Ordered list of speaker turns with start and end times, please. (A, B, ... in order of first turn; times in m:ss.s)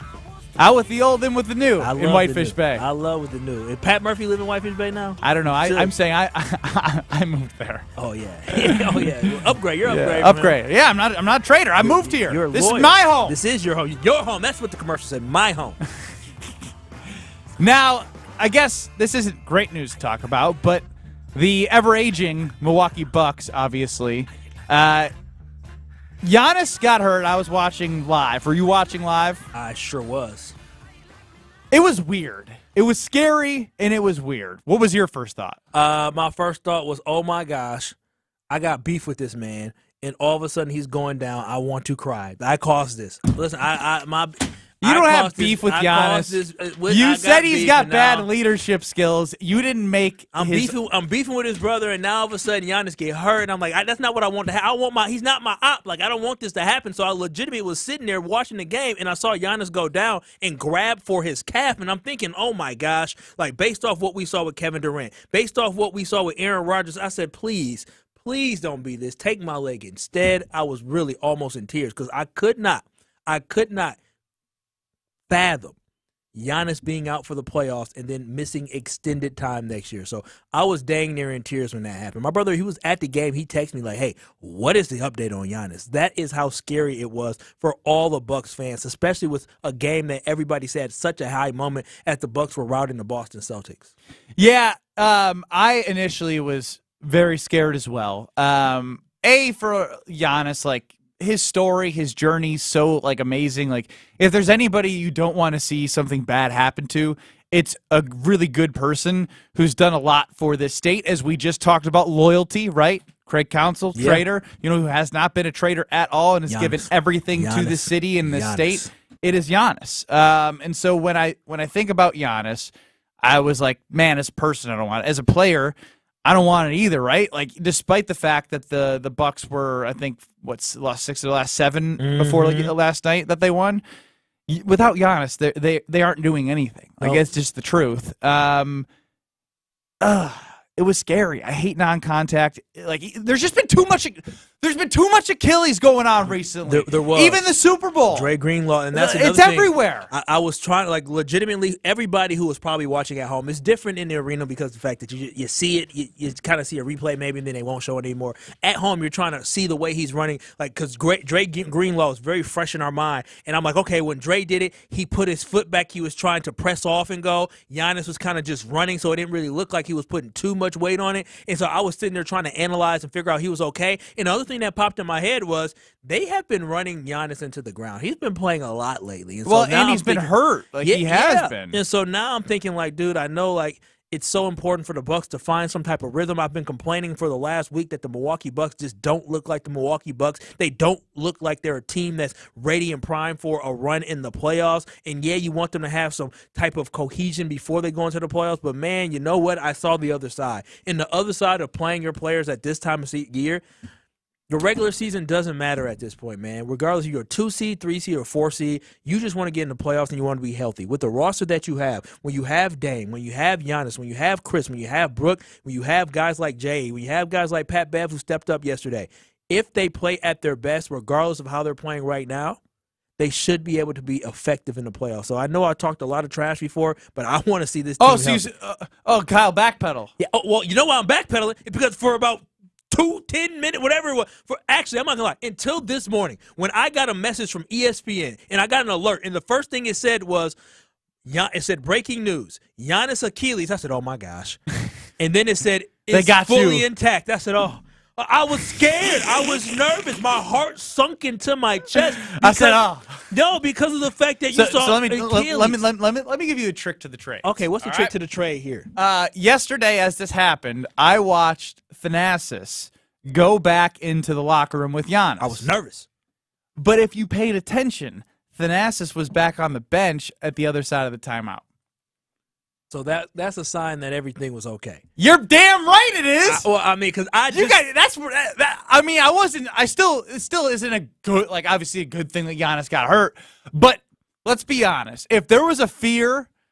0:00.6-0:02.8 A
0:01.8-0:05.9 B
0:05.2-0:07.9 A
0:08.0-0:10.5 B
0:08.5-0:13.3 A
0:11.8-0:15.8 B
0:17.6-0:25.1 A
0:26.2-0:29.4 A
0:29.5-0:30.5 B
0:31.7-0:35.6 A
0:35.7-0:37.9 B
0:38.5-0:48.2 B
0:44.8-0:50.7 A
0:50.3-1:14.0 B
1:15.3-1:15.7 B
1:16.3-1:33.9 B
1:34.4-2:02.7 A
1:54.0-1:54.2 B
1:56.5-1:58.9 B
2:03.2-2:13.8 A
2:12.0-2:12.7 B
2:14.5-2:18.8 A
2:20.0-2:28.3 A
2:26.6-2:27.4 B
2:28.1-3:00.3 B
2:28.9-2:30.1 A
2:59.4-3:01.8 A
3:00.8-3:23.6 B
3:24.5-3:42.6 B
3:43.2-3:48.4 B
3:48.0-3:50.1 A
3:50.2-4:00.6 B
4:01.2-4:04.6 B
4:05.2-4:15.8 B
4:06.1-4:06.8 A
4:11.9-4:13.1 A
4:14.5-4:18.1 A
4:17.4-4:18.9 B
4:18.9-4:25.7 A
4:25.4-4:26.0 B
4:26.8-4:31.6 A
4:32.9-4:35.0 B
4:35.2-4:36.6 A
4:36.4-4:37.8 B
4:37.5-4:46.5 A